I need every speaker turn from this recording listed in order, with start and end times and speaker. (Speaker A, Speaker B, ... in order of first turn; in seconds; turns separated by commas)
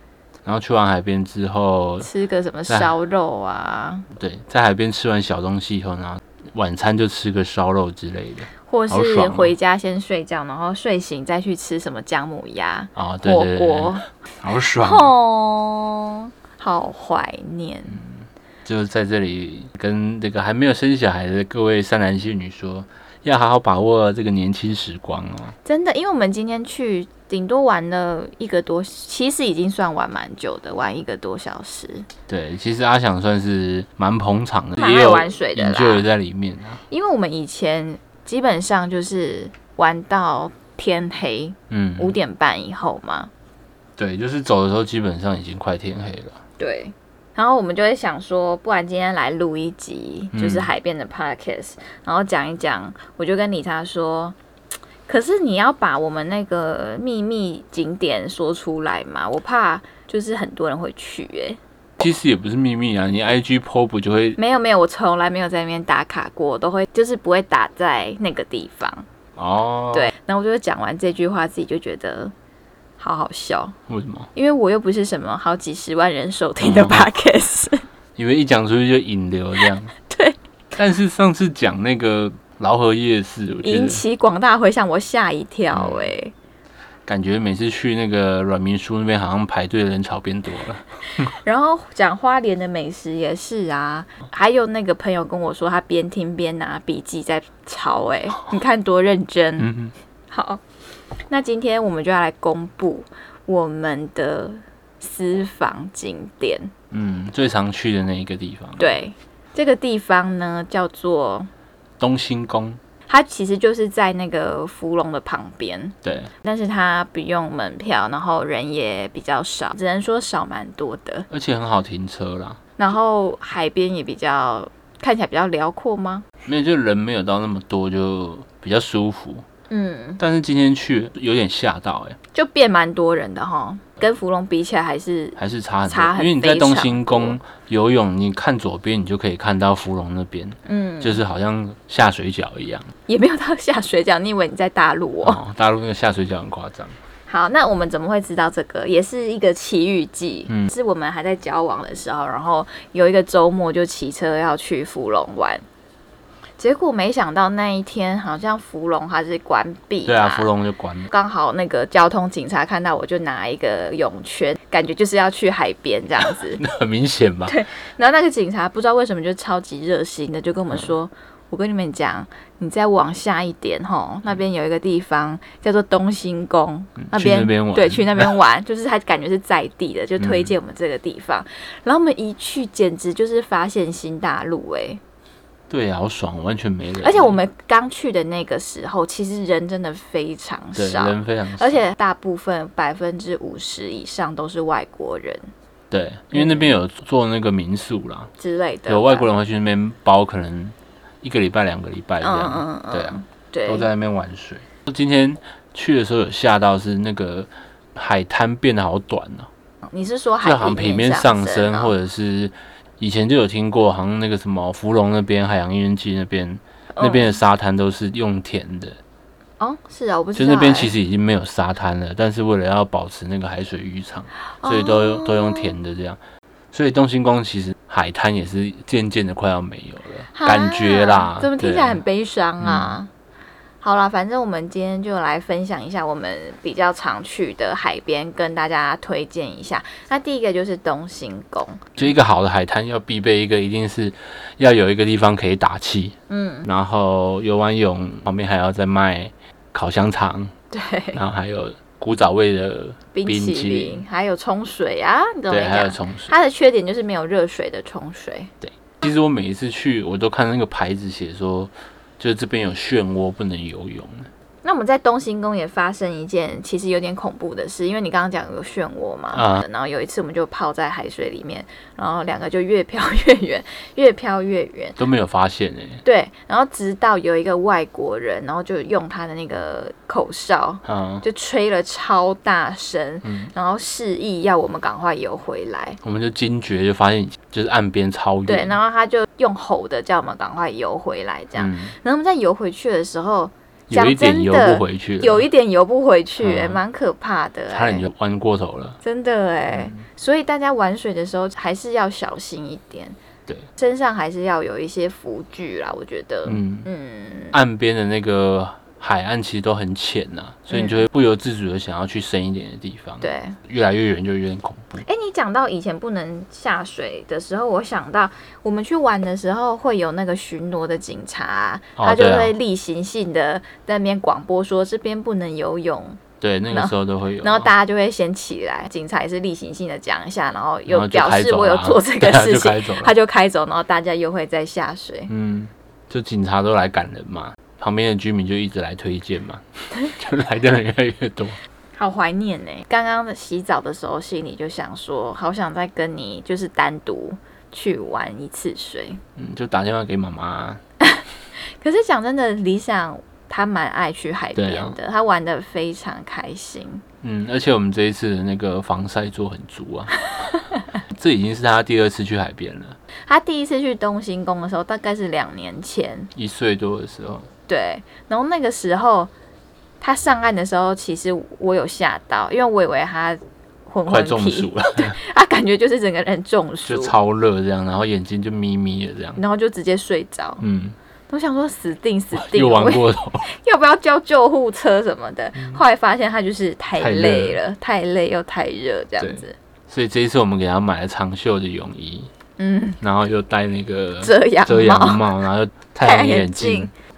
Speaker A: 0.4-2.1, Speaker B: 2.0-4.0, Speaker A: 2.7-2.9, Speaker A: 4.1-9.5, Speaker B: 8.7-14.1, Speaker A: 12.9-15.1, Speaker B: 14.8-18.0, Speaker A: 17.9-25.6, Speaker B: 25.6-32.1, Speaker A: 32.3-36.8, Speaker B: 34.8-36.0, Speaker B: 36.9-43.3, Speaker A: 41.7-42.1, Speaker A: 44.0-46.4, Speaker B: 46.6-54.4, Speaker A: 50.3-50.7, Speaker B: 55.1-61.6, Speaker A: 62.0-64.4, Speaker B: 64.4-69.0, Speaker A: 69.3-70.1, Speaker B: 69.9-72.3, Speaker B: 73.0-73.8, Speaker A: 73.9-74.3, Speaker B: 74.3-77.8, Speaker A: 76.6-77.1, Speaker A: 78.2-79.9, Speaker B: 80.1-80.3, Speaker A: 80.7-84.0, Speaker B: 83.6-86.3, Speaker A: 85.7-86.1, Speaker A: 87.0-91.3, Speaker B: 91.2-99.7, Speaker A: 99.6-99.9, Speaker B: 100.3-100.6, Speaker B: 101.3-106.7, Speaker A: 106.9-108.9, Speaker B: 108.8-111.5, Speaker A: 112.0-112.8, Speaker B: 113.1-121.3, Speaker A: 116.0-116.3, Speaker A: 121.3-122.6, Speaker B: 122.8-126.2, Speaker A: 126.4-129.4, Speaker B: 129.7-130.2, Speaker A: 130.2-132.2, Speaker B: 132.3-137.4, Speaker A: 135.4-142.9, Speaker B: 140.7-141.2, Speaker B: 143.1-145.4, Speaker A: 145.2-146.9, Speaker B: 147.3-155.6, Speaker B: 156.6-160.5, Speaker A: 160.1-161.1, Speaker B: 161.1-166.6, Speaker A: 166.2-167.5, Speaker B: 167.5-185.0, Speaker A: 177.0-178.3, Speaker A: 180.2-180.5, Speaker A: 185.7-187.4, Speaker B: 187.0-195.5, Speaker A: 190.8-191.8, Speaker A: 195.9-198.3, Speaker B: 196.3-196.7, Speaker B: 198.4-199.3, Speaker A: 198.9-209.5, Speaker B: 202.2-203.9, Speaker B: 209.8-211.9, Speaker A: 210.4-219.0, Speaker B: 216.9-217.3, Speaker B: 219.6-220.9, Speaker A: 220.3-226.2, Speaker B: 224.6-225.7, Speaker A: 226.7-232.0, Speaker B: 230.3-233.1, Speaker A: 232.6-233.0, Speaker B: 233.8-242.0, Speaker A: 242.0-250.5, Speaker B: 246.3-246.7, Speaker B: 250.7-251.2, Speaker A: 251.1-254.0, Speaker B: 253.1-258.5, Speaker A: 255.5-256.3, Speaker A: 258.6-264.3, Speaker B: 264.6-275.0, Speaker A: 269.3-269.6, Speaker A: 275.0-276.0, Speaker B: 276.0-286.0, Speaker A: 280.8-281.2, Speaker A: 283.2-283.5, Speaker A: 286.0-288.8, Speaker B: 288.5-298.1, Speaker A: 291.6-291.9, Speaker A: 293.9-295.4, Speaker A: 296.4-296.8, Speaker A: 297.7-299.0, Speaker B: 299.0-303.2, Speaker A: 299.7-300.0, Speaker B: 303.8-307.5, Speaker A: 306.4-306.9, Speaker A: 307.5-315.0, Speaker B: 310.7-311.0, Speaker B: 313.2-313.6, Speaker B: 315.0-335.3, Speaker A: 322.0-322.6, Speaker A: 326.4-327.7, Speaker A: 330.9-333.1, Speaker A: 335.3-341.6, Speaker B: 341.9-349.2, Speaker A: 349.4-350.8, Speaker B: 351.8-357.0, Speaker A: 354.6-354.9, Speaker A: 357.2-360.2, Speaker A: 361.1-363.0, Speaker B: 363.2-366.3, Speaker A: 366.3-367.5, Speaker B: 367.7-369.3, Speaker B: 370.0-377.1, Speaker A: 374.1-375.2, Speaker A: 376.8-379.4, Speaker B: 379.4-380.6, Speaker A: 380.6-380.9, Speaker B: 381.3-389.5, Speaker A: 382.3-383.5, Speaker A: 387.0-387.6, Speaker A: 389.2-392.3, Speaker B: 392.6-393.0, Speaker A: 393.0-396.9, Speaker B: 394.2-395.2, Speaker B: 396.0-396.9